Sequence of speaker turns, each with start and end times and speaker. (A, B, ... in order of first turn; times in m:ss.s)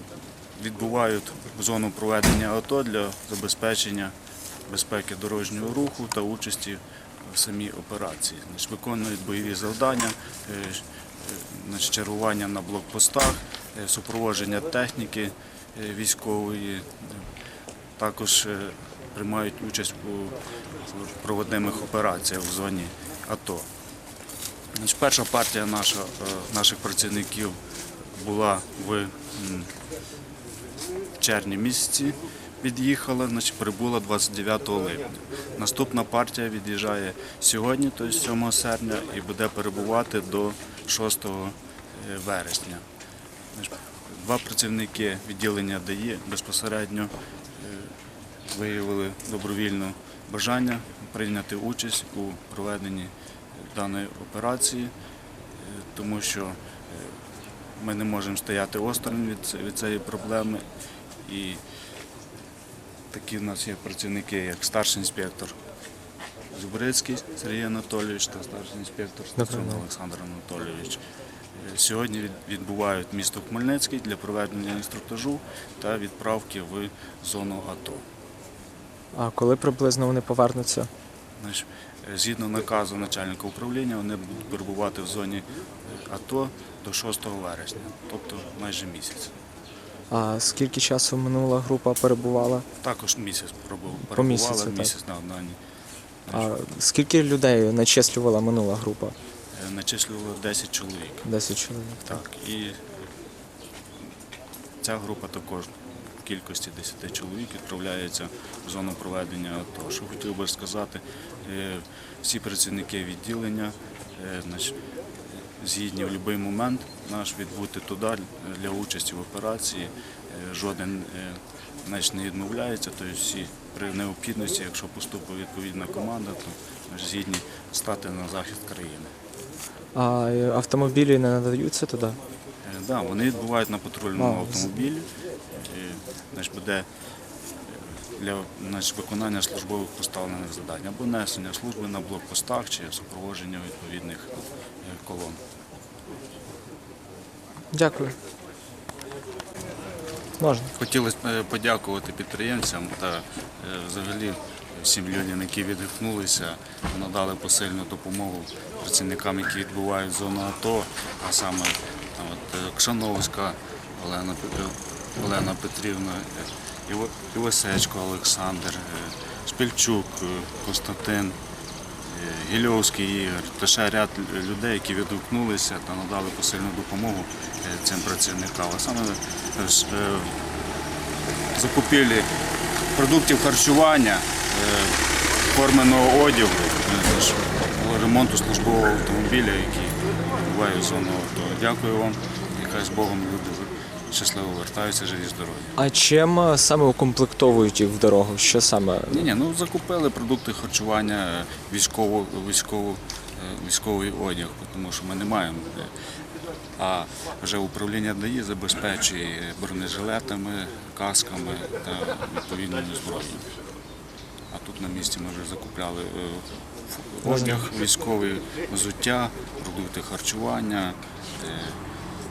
0:00.6-0:04.2 A
0:04.7-0:17.3 A
0:18.0-0:23.7 A
0:24.8-0:27.6 A
0:28.2-0:29.7 A
0:31.2-0:42.8 A
0:43.5-0:48.0 A
0:48.5-0:54.9 A
0:55.6-0:57.2 A
0:57.8-1:00.6 A
1:01.2-1:01.6 A
1:03.1-1:05.6 A
1:06.5-1:11.0 A
1:09.4-1:09.8 B
1:11.6-1:18.0 A
1:19.1-1:20.9 B
1:21.4-1:29.3 A
1:30.1-1:32.7 B
1:32.8-1:35.6 A
1:34.0-1:34.9 B
1:36.3-1:36.5 A
1:36.3-1:39.2 B
1:39.5-1:41.3 A
1:41.2-1:42.2 B
1:42.0-1:42.8 A
1:44.8-1:54.8 A
1:55.3-2:09.1 A
2:10.0-2:12.2 B
2:12.6-2:16.9 A
2:14.2-2:14.8 B
2:17.7-2:25.4 A
2:27.7-2:28.2 B
2:30.4-2:30.7 B
2:30.7-2:51.4 A
2:52.1-3:00.4 A
3:01.5-3:02.3 A
3:02.9-3:15.8 A
3:15.8-3:19.3 B
3:19.1-3:25.9 A
3:26.8-3:33.5 A
3:34.5-3:41.8 A
3:37.2-3:37.6 B